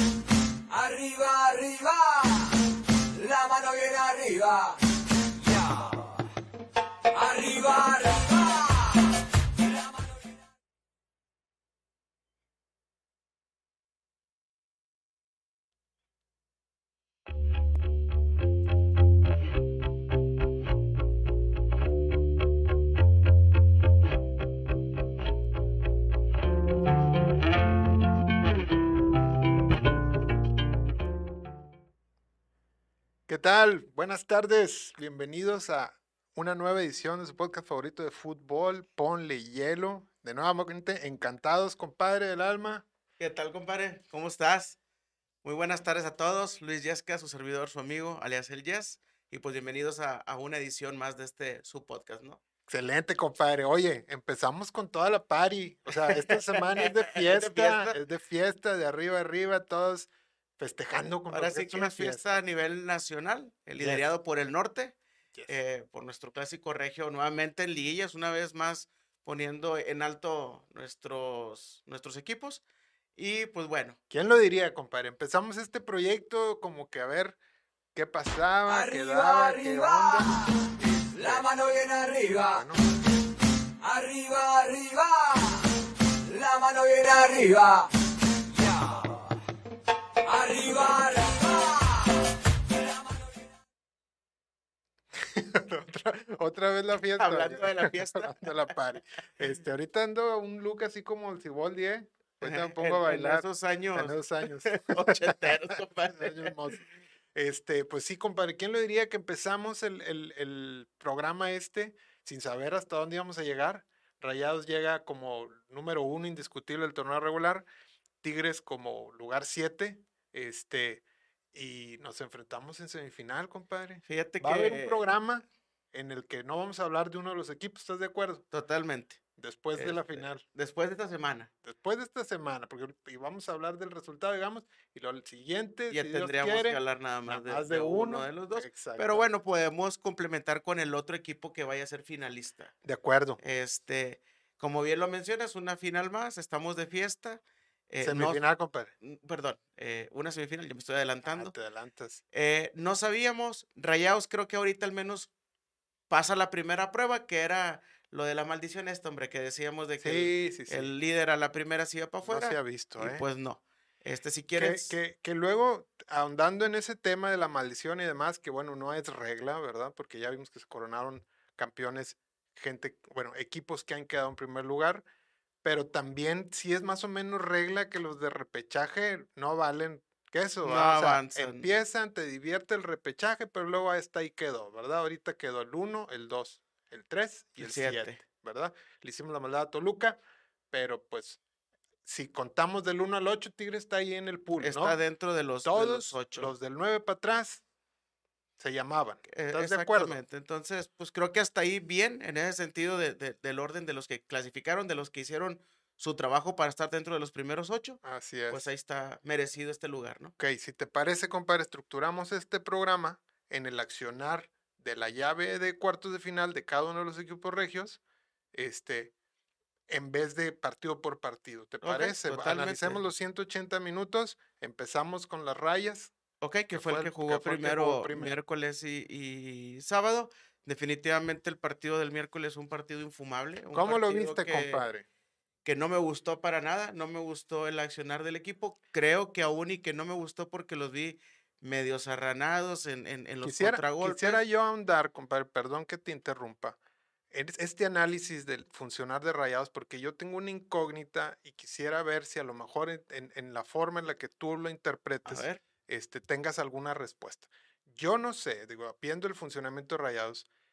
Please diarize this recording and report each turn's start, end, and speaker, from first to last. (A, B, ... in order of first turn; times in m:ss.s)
0:00.7-0:06.3 A
0:07.1-0:10.4 A
0:33.3-0:42.9 B
0:43.2-0:44.8 C
0:45.4-0:52.4 C
0:52.7-1:02.4 B
0:56.0-0:58.0 C
1:01.3-1:05.0 C
1:03.8-1:04.0 B
1:05.5-1:12.6 C
1:13.2-1:14.0 C
1:14.1-1:17.4 B
1:18.0-1:21.5 B
1:18.7-1:22.7 A
1:22.5-1:22.8 B
1:23.8-1:29.4 A
1:30.2-1:33.4 A
1:35.2-1:43.4 B
1:37.2-1:38.5 C
1:42.4-1:46.5 C
1:44.0-1:57.7 B
1:58.2-2:08.4 B
2:04.1-2:05.0 C
2:08.5-2:09.2 C
2:09.4-2:10.4 B
2:09.8-2:11.5 C
2:11.6-2:19.3 B
2:15.9-2:22.7 C
2:22.8-2:23.4 B
2:23.4-2:28.4 C
2:28.0-2:28.9 B
2:29.0-2:31.5 C
2:31.3-2:32.2 B
2:32.3-2:35.3 C
2:36.1-2:45.0 C
2:40.0-2:40.9 B
2:42.2-2:43.2 B
2:44.6-2:55.0 B
2:55.6-3:10.2 B
3:00.6-3:01.7 C
3:07.6-3:08.2 C
3:10.7-3:11.4 B
3:12.0-3:15.0 B
3:14.6-3:16.5 C
3:15.6-3:17.6 B
3:18.6-3:20.2 B
3:19.3-3:30.3 C
3:28.0-3:28.6 B
3:30.4-3:38.0 B
3:38.5-3:39.1 B
3:39.9-3:46.1 B
3:41.8-3:43.0 C
3:46.4-3:54.8 C
3:46.7-3:48.3 B
3:53.7-3:55.0 B
3:55.6-4:04.4 C
4:03.4-4:06.8 B
4:07.3-4:20.5 B
4:15.2-4:15.6 C